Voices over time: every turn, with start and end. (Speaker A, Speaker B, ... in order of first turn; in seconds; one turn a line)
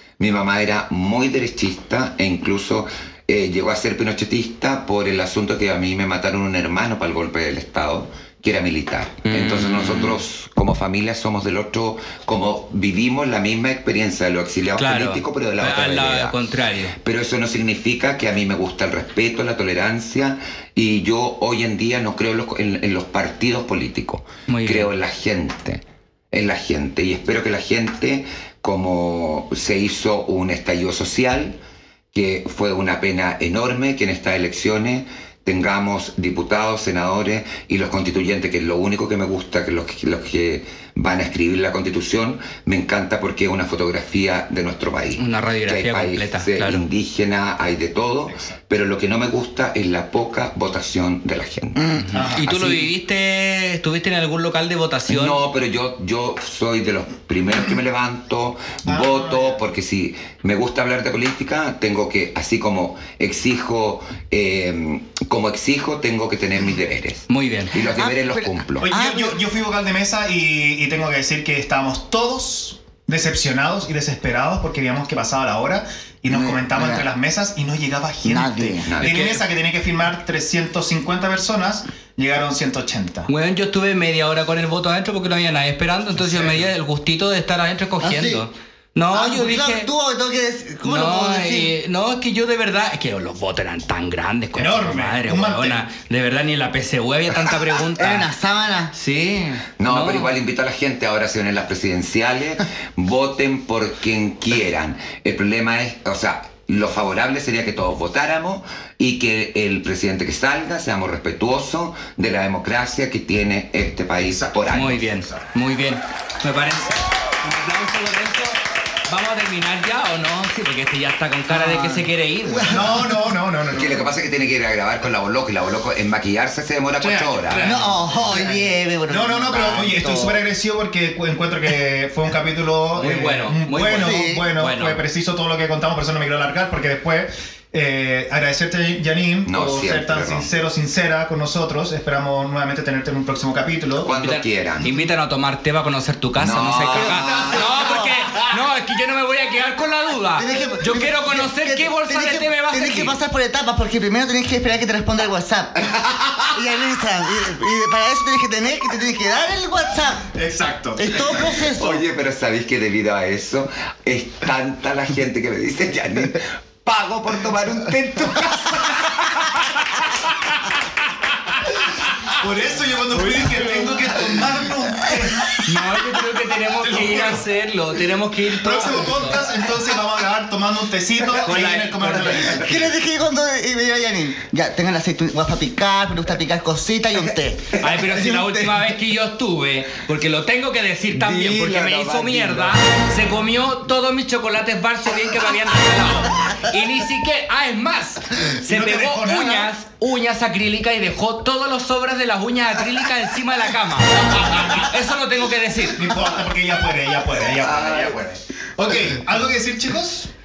Speaker A: 0.2-16.4
Speaker B: 9.3-10.2
Speaker B: 14.8-17.0
Speaker A: 17.0-31.6
Speaker B: 24.5-24.9
Speaker A: 32.1-52.9
Speaker B: 45.2-46.8
Speaker C: 51.8-52.1
Speaker B: 52.0-55.4
Speaker D: 52.1-52.5
Speaker A: 55.1-68.9
Speaker D: 58.9-59.6
Speaker B: 67.3-67.8
Speaker C: 67.9-69.4
Speaker D: 68.8-83.3
Speaker C: 76.3-77.1
Speaker C: 78.2-78.9
Speaker A: 78.9-79.2
Speaker B: 79.0-79.5
Speaker B: 83.3-89.9
Speaker D: 86.3-86.7
Speaker C: 88.0-88.5
Speaker C: 89.1-91.7
Speaker B: 90.8-98.3
Speaker D: 94.6-95.8
Speaker C: 98.0-98.9
Speaker B: 98.9-100.3
Speaker A: 99.8-115.1
Speaker D: 114.2-114.6
Speaker B: 114.7-123.0
Speaker C: 121.5-123.0
Speaker D: 122.7-124.1
Speaker A: 123.7-127.8
Speaker D: 127.0-144.1
Speaker C: 127.6-130.4
Speaker B: 132.9-135.0
Speaker C: 134.0-134.5
Speaker A: 139.5-140.5
Speaker A: 144.0-144.9
Speaker B: 144.2-153.2
Speaker A: 146.4-147.7
Speaker C: 146.9-148.4
Speaker C: 150.4-155.9
Speaker A: 155.8-156.6
Speaker C: 156.5-160.3
Speaker D: 160.3-161.3
Speaker C: 161.0-162.0
Speaker A: 161.3-169.5
Speaker D: 172.2-175.7
Speaker B: 173.1-174.1
Speaker B: 175.5-179.6
Speaker D: 176.8-177.4
Speaker D: 178.5-182.9
Speaker B: 181.3-182.8
Speaker C: 182.5-188.7
Speaker B: 187.8-206.1
Speaker A: 191.1-193.0
Speaker D: 198.6-199.7
Speaker D: 205.9-210.3
Speaker A: 207.6-208.2